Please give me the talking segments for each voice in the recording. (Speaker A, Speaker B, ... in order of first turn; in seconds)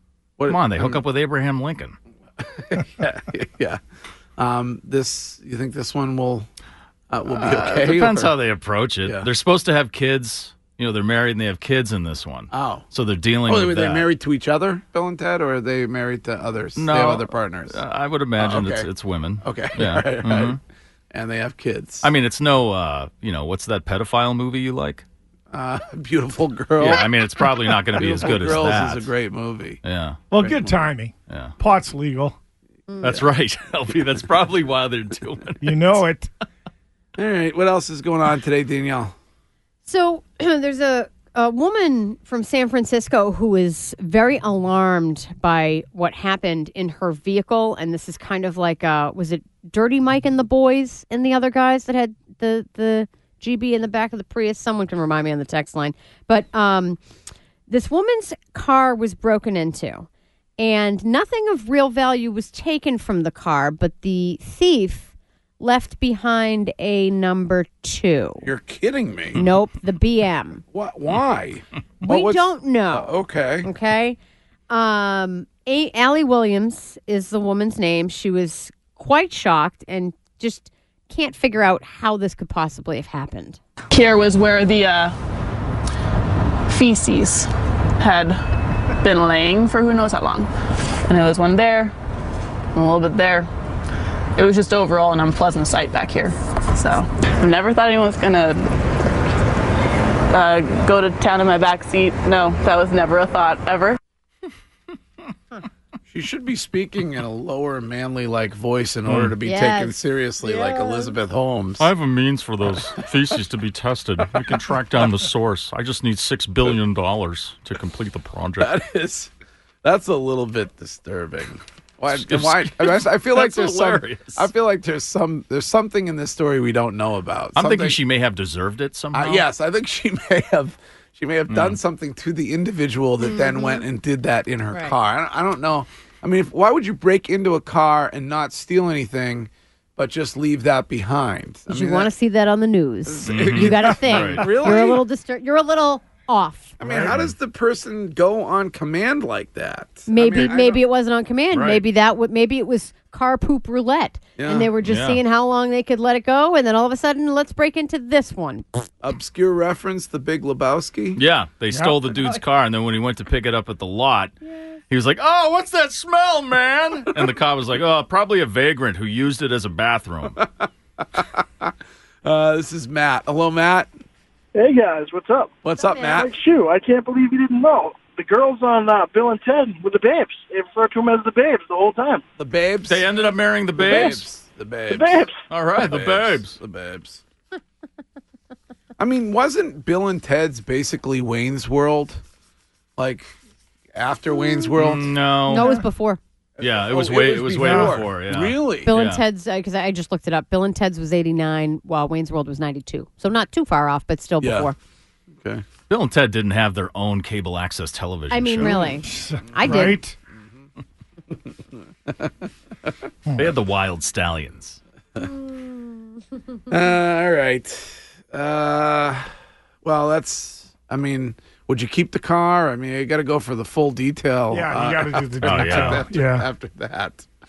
Speaker A: 0.4-1.0, 2.4-3.8, 4.4-6.5, 7.1-8.3, 12.5-12.8, 13.4-17.8, 18.4-18.9, 19.4-20.6, 21.1-22.1, 25.5-27.2, 27.9-30.9, 37.1-39.1, 68.4-69.4, 70.7-73.7, 106.1-111.9, 118.6-119.3, 119.8-128.0, 129.1-142.1, 143.1-145.0, 146.8-150.8, 154.4-154.7, 159.0-161.2, 170.4-173.9, 175.6-176.3, 182.4-187.2, 189.0-192.2, 193.0-193.3, 193.9-195.1, 196.6-198.9, 204.4-204.7, 205.4-205.6, 208.6-208.9, 209.6-209.9, 212.1-212.9, 216.7-219.3, 219.8-227.3
Speaker B: 0.5-1.9, 7.3-14.1, 16.8-20.6, 22.0-25.0, 26.8-29.1, 29.8-30.2, 31.3-31.5, 33.0-36.0, 109.1-109.3, 111.8-118.7, 122.1-124.5, 127.5-129.4, 131.5-131.8, 143.2-144.5, 146.9-147.3, 151.5-151.8, 154.8-155.2, 161.2-164.3, 164.9-170.4, 182.9-184.2, 185.5-186.6, 194.8-195.7, 196.6-199.2, 205.9-208.7, 213.3-214.8, 225.4-226.1
Speaker C: 30.3-32.4, 35.6-36.3, 146.9-147.1, 161.7-162.0, 195.5-195.8, 197.6-198.0, 208.7-210.2, 224.5-226.5
Speaker D: 32.9-33.1, 39.8-57.0, 57.7-60.1, 60.6-68.5, 69.3-70.6, 72.0-73.1, 73.6-74.2, 74.7-83.6, 109.4-111.2, 133.2-133.8, 141.7-146.8, 150.1-158.8, 175.8-176.1, 195.5-196.2, 198.9-204.7, 208.3-210.0
Speaker E: 83.9-85.1, 86.7-88.4, 89.0-90.5, 91.1-91.9, 92.7-93.5, 94.4-98.7, 100.3-104.0
Speaker F: 174.5-182.2, 183.8-184.2, 184.9-185.4